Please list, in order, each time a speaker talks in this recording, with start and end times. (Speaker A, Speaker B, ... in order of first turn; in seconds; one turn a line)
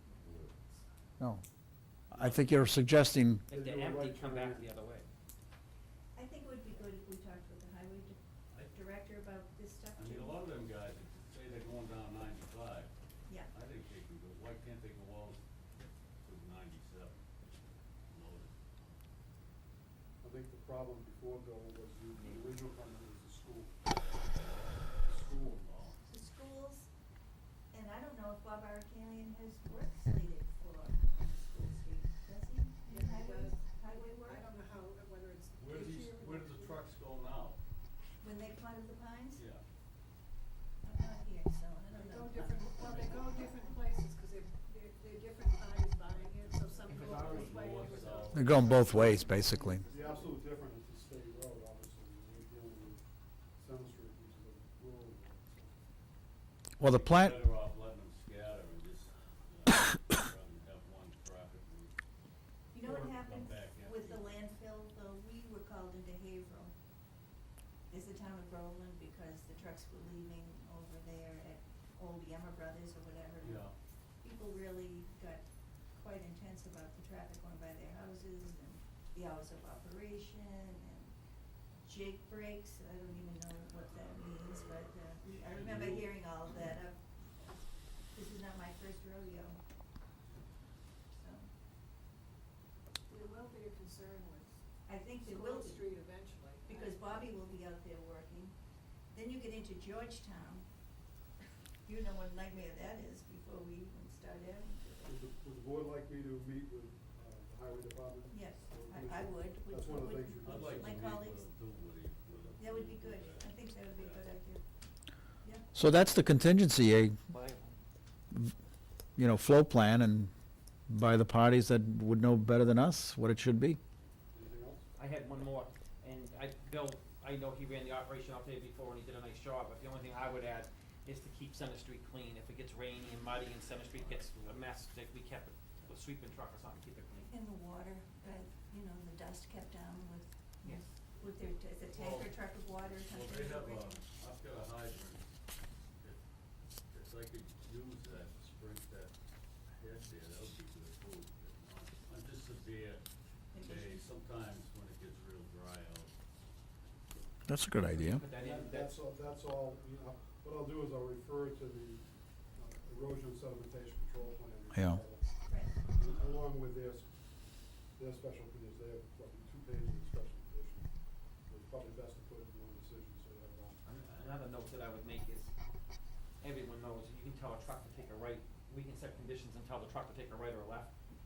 Speaker A: 0.2-0.5
Speaker A: 2.1-2.6
Speaker B: 2.1-3.5
Speaker C: 3.5-4.7
Speaker D: 3.5-5.1
Speaker E: 6.2-10.4
Speaker A: 10.0-12.9
Speaker E: 13.3-13.5
Speaker A: 13.5-17.2
Speaker A: 18.1-18.5
Speaker C: 20.2-23.8
Speaker A: 24.4-24.8
Speaker C: 25.0-25.7
Speaker A: 25.4-26.0
Speaker E: 26.1-26.9
Speaker E: 27.7-34.4
Speaker F: 32.9-36.8
Speaker A: 35.6-37.6
Speaker E: 38.2-39.5
Speaker A: 39.4-39.6
Speaker E: 40.8-43.2
Speaker F: 41.9-49.4
Speaker A: 46.7-50.3
Speaker D: 46.9-48.4
Speaker B: 48.3-49.8
Speaker C: 49.5-53.0
Speaker C: 53.5-55.8
Speaker B: 56.8-57.4
Speaker A: 56.8-61.9
Speaker E: 62.7-66.7
Speaker A: 62.8-64.4
Speaker E: 67.9-73.7
Speaker A: 73.4-73.7
Speaker E: 74.2-81.1
Speaker E: 81.8-87.5
Speaker A: 85.2-86.0
Speaker E: 88.1-89.6
Speaker E: 91.2-91.5
Speaker F: 93.1-94.6
Speaker E: 94.9-95.8
Speaker F: 95.1-97.4
Speaker E: 96.7-98.5
Speaker E: 99.1-100.7
Speaker E: 101.9-105.1
Speaker C: 105.0-111.0
Speaker E: 108.3-111.4
Speaker A: 110.4-114.3
Speaker C: 112.3-112.7
Speaker E: 112.6-114.6
Speaker B: 115.7-117.2
Speaker D: 117.3-117.8
Speaker B: 119.2-120.3
Speaker B: 120.9-123.8
Speaker C: 124.3-124.8
Speaker D: 125.0-137.3
Speaker A: 133.8-134.7
Speaker E: 137.3-144.0
Speaker A: 141.8-145.3
Speaker A: 146.9-149.1
Speaker A: 149.7-153.0
Speaker E: 153.5-154.0
Speaker A: 153.6-156.1
Speaker B: 157.5-158.2
Speaker D: 158.0-159.0
Speaker C: 158.3-167.2
Speaker B: 164.8-165.0
Speaker E: 165.5-165.8
Speaker C: 167.9-173.8
Speaker D: 173.8-175.5
Speaker D: 176.4-180.9